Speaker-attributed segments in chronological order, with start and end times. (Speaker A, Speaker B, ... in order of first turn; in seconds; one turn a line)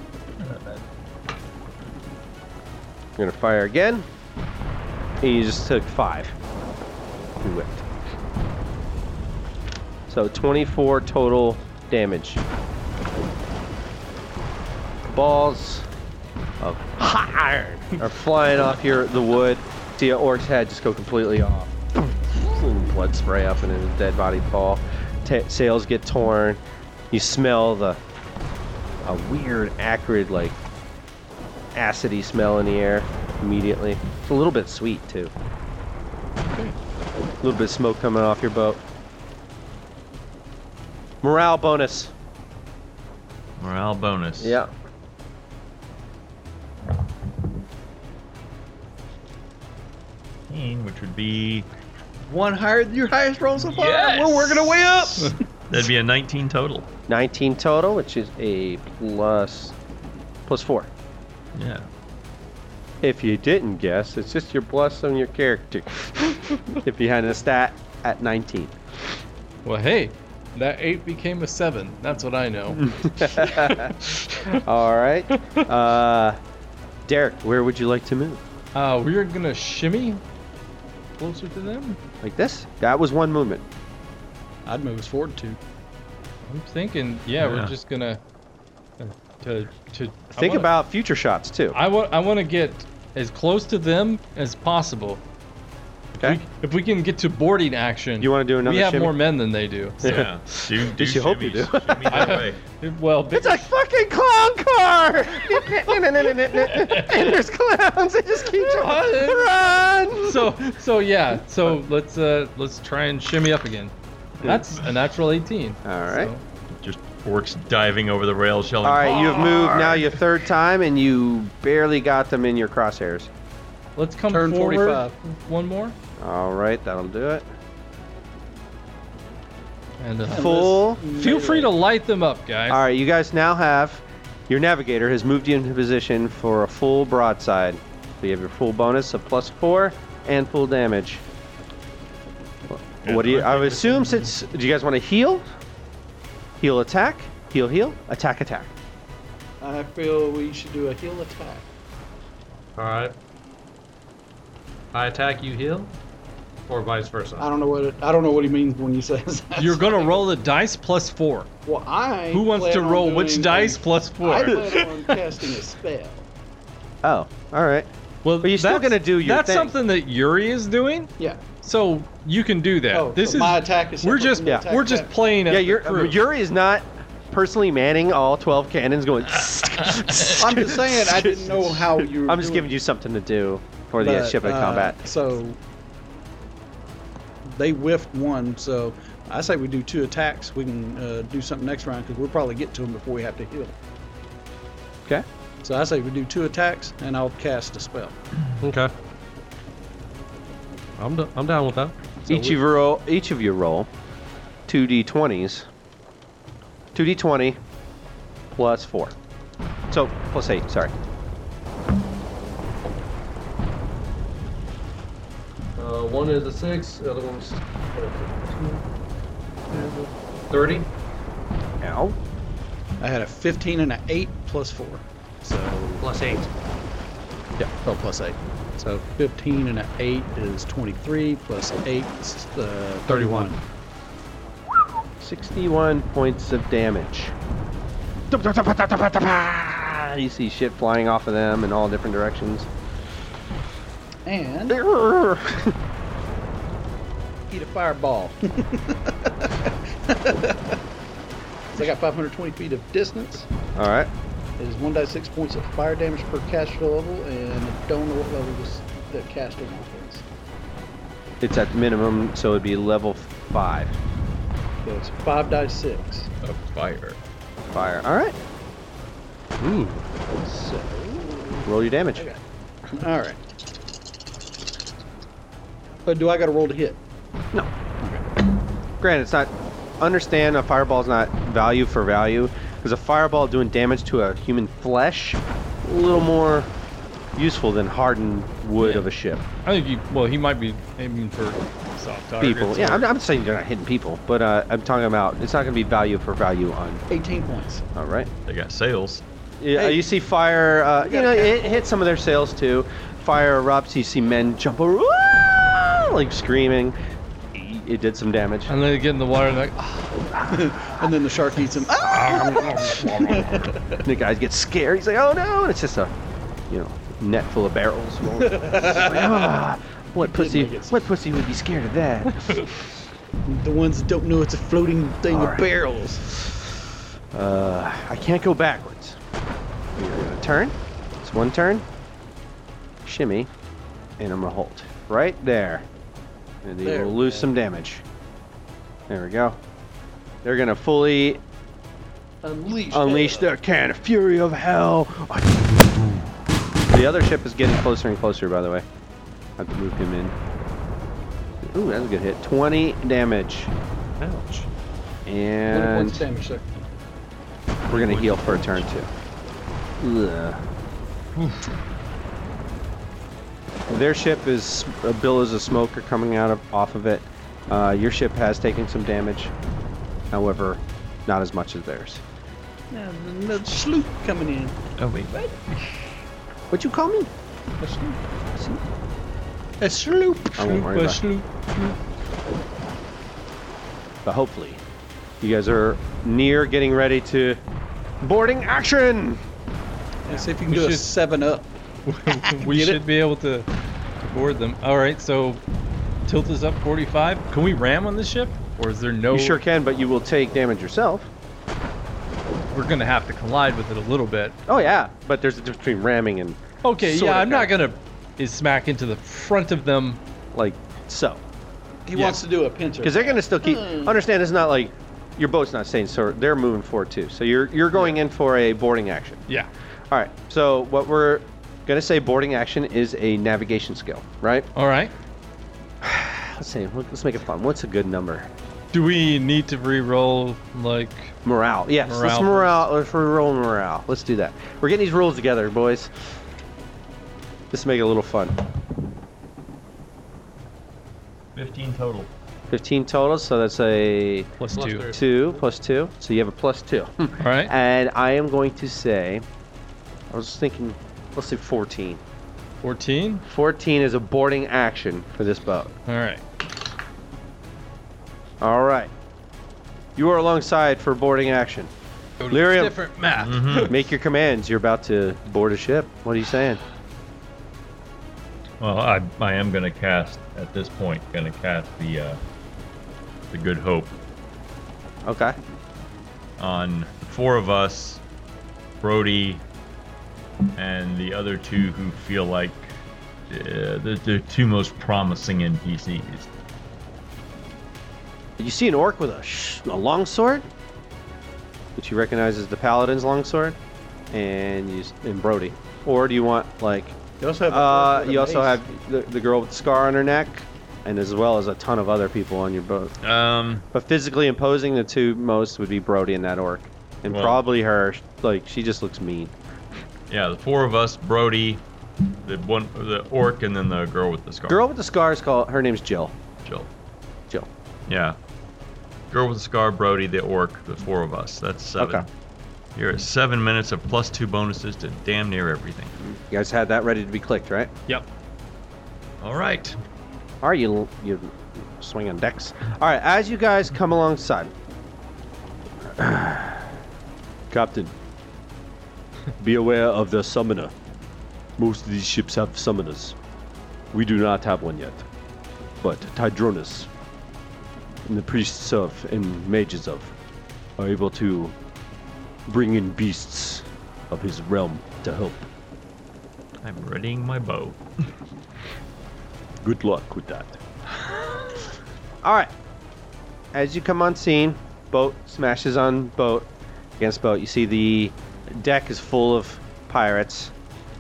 Speaker A: 0.4-0.8
Speaker B: 3.2-4.1
Speaker B: 5.2-6.4
Speaker B: 7.4-7.9
Speaker B: 10.1-12.4
Speaker B: 15.1-15.9
Speaker B: 16.6-28.0
Speaker B: 29.0-30.6
Speaker B: 31.8-35.3
Speaker C: 36.4-36.8
Speaker B: 37.4-38.8
Speaker B: 41.2-42.1
Speaker A: 43.6-44.6
Speaker B: 44.4-44.7
Speaker A: 50.5-51.7
Speaker D: 52.2-55.4
Speaker A: 53.6-56.9
Speaker B: 57.1-59.8
Speaker B: 60.5-60.9
Speaker A: 61.5-61.9
Speaker B: 63.0-68.8
Speaker C: 69.7-74.6
Speaker B: 72.7-76.4
Speaker C: 75.3-75.6
Speaker B: 77.1-78.4
Speaker C: 78.8-80.2
Speaker C: 81.2-82.0
Speaker B: 82.2-83.7
Speaker D: 84.7-85.6
Speaker C: 86.5-88.2
Speaker A: 87.4-87.7
Speaker C: 89.0-90.7
Speaker B: 90.3-91.8
Speaker C: 91.7-95.2
Speaker C: 96.2-100.3
Speaker B: 98.2-99.2
Speaker B: 100.0-102.4
Speaker A: 100.0-102.6
Speaker C: 102.1-103.7
Speaker B: 103.3-110.6
Speaker C: 108.5-109.5
Speaker C: 110.2-116.4
Speaker B: 115.8-116.3
Speaker A: 116.7-120.2
Speaker B: 118.8-123.3
Speaker C: 124.0-126.0
Speaker D: 124.3-125.1
Speaker B: 126.2-127.5
Speaker C: 130.0-132.8
Speaker D: 130.3-131.7
Speaker B: 130.3-131.1
Speaker B: 132.7-141.2
Speaker B: 142.7-145.4
Speaker A: 143.0-144.1
Speaker B: 146.6-148.7
Speaker D: 149.6-151.7
Speaker E: 152.8-153.1
Speaker E: 154.9-155.9
Speaker E: 156.7-157.5
Speaker D: 157.4-160.3
Speaker C: 159.6-161.5
Speaker D: 161.7-166.3
Speaker C: 162.3-165.0
Speaker B: 167.0-167.9
Speaker C: 168.2-176.2
Speaker B: 168.4-169.8
Speaker D: 172.9-175.2
Speaker B: 175.5-185.0
Speaker D: 180.3-182.7
Speaker D: 184.0-185.6
Speaker D: 187.4-193.8
Speaker D: 195.6-198.2
Speaker E: 198.6-198.9
Speaker E: 201.0-202.6
Speaker B: 202.3-203.9
Speaker B: 204.7-205.7
Speaker B: 206.9-207.6
Speaker B: 208.5-209.2
Speaker B: 209.9-210.9
Speaker E: 215.8-218.8
Speaker E: 219.7-220.9
Speaker B: 221.8-222.2
Speaker D: 223.0-226.0
Speaker E: 226.0-226.5
Speaker D: 227.8-233.6
Speaker B: 233.2-233.5
Speaker B: 235.2-237.3
Speaker B: 238.3-242.7
Speaker D: 244.2-244.8
Speaker B: 244.7-245.8
Speaker D: 247.5-250.8
Speaker D: 251.7-253.5
Speaker B: 253.8-254.1
Speaker D: 254.6-260.2
Speaker B: 261.4-263.9
Speaker D: 264.9-266.3
Speaker A: 266.4-267.2
Speaker B: 267.7-268.4
Speaker E: 269.6-270.0
Speaker D: 270.4-273.4
Speaker B: 271.6-272.3
Speaker D: 276.1-277.0
Speaker B: 279.0-286.7
Speaker B: 287.4-289.4
Speaker C: 288.8-289.1
Speaker C: 289.6-293.1
Speaker B: 292.4-297.0
Speaker D: 297.1-297.8
Speaker B: 297.9-298.3
Speaker A: 298.5-299.2
Speaker B: 299.6-307.0
Speaker D: 299.8-300.0
Speaker D: 301.0-301.8
Speaker B: 307.5-308.7
Speaker C: 308.7-310.3
Speaker B: 310.3-311.1
Speaker D: 310.5-314.0
Speaker B: 312.0-316.1
Speaker B: 316.7-322.7
Speaker D: 318.4-319.5
Speaker D: 320.2-321.0
Speaker D: 323.5-326.3
Speaker B: 325.3-325.7
Speaker B: 327.3-329.2
Speaker B: 330.0-331.9
Speaker B: 333.1-333.5
Speaker B: 334.2-335.9
Speaker B: 336.6-338.0
Speaker D: 336.8-337.5
Speaker B: 339.1-339.6
Speaker B: 340.4-341.4
Speaker D: 342.4-343.5
Speaker B: 342.9-346.3
Speaker B: 346.9-348.9
Speaker B: 349.6-350.3
Speaker B: 351.6-353.7
Speaker E: 354.2-354.7
Speaker B: 355.3-356.2
Speaker D: 355.7-356.8
Speaker B: 357.9-359.1
Speaker A: 357.9-358.7
Speaker B: 360.0-360.6
Speaker B: 363.9-369.5
Speaker B: 370.3-372.2
Speaker D: 372.9-374.8
Speaker A: 375.0-375.9
Speaker B: 376.7-377.3
Speaker D: 377.8-378.2
Speaker D: 379.8-380.5
Speaker B: 380.6-381.2
Speaker C: 380.6-381.9
Speaker B: 384.2-384.8
Speaker B: 385.4-387.6
Speaker B: 388.2-389.4
Speaker D: 390.3-391.7
Speaker C: 390.6-391.1
Speaker C: 392.1-393.7
Speaker D: 392.3-393.0
Speaker C: 394.3-395.6
Speaker C: 396.3-399.6
Speaker B: 399.3-401.3
Speaker C: 402.7-404.6
Speaker B: 404.7-407.7
Speaker C: 406.8-410.2
Speaker B: 410.5-411.4
Speaker D: 412.1-414.1
Speaker B: 413.0-419.5
Speaker B: 420.1-424.7
Speaker C: 424.8-425.1
Speaker B: 426.0-428.5
Speaker C: 428.9-431.4
Speaker B: 431.4-436.2
Speaker C: 432.0-432.9
Speaker B: 437.7-438.6
Speaker A: 441.6-442.3
Speaker B: 442.7-444.5
Speaker C: 444.6-445.1
Speaker E: 444.7-445.4
Speaker B: 445.1-449.4
Speaker C: 447.4-447.7
Speaker B: 450.3-452.2
Speaker C: 452.8-453.4
Speaker B: 453.4-455.9
Speaker C: 456.1-456.4
Speaker B: 458.6-459.1
Speaker B: 460.2-461.9
Speaker C: 462.4-463.9
Speaker B: 462.5-463.0
Speaker A: 463.4-464.0
Speaker B: 463.7-466.8
Speaker A: 468.8-472.4
Speaker A: 473.5-474.1
Speaker B: 475.2-475.6
Speaker A: 476.6-478.2
Speaker A: 479.0-479.6
Speaker A: 480.8-482.9
Speaker A: 483.5-486.5
Speaker B: 488.6-490.7
Speaker B: 492.0-493.8
Speaker B: 494.3-497.2
Speaker D: 497.4-498.8
Speaker B: 497.7-503.1
Speaker A: 503.2-503.9
Speaker B: 503.9-509.5
Speaker A: 507.3-507.6
Speaker A: 510.3-511.8
Speaker A: 512.4-514.8
Speaker B: 514.7-516.4
Speaker A: 516.6-516.9
Speaker A: 518.1-518.4
Speaker A: 519.3-522.3
Speaker B: 522.0-522.3
Speaker A: 523.0-526.1
Speaker B: 526.2-527.9
Speaker A: 529.4-530.0
Speaker B: 530.6-534.7
Speaker B: 536.0-536.9
Speaker B: 537.7-538.1
Speaker B: 539.6-540.9
Speaker B: 541.8-543.4
Speaker B: 544.1-545.3
Speaker B: 546.0-547.1
Speaker B: 548.3-550.3
Speaker B: 551.0-551.8
Speaker B: 552.7-555.7
Speaker A: 556.8-558.0
Speaker B: 559.8-560.8
Speaker B: 562.4-562.7
Speaker B: 563.7-570.7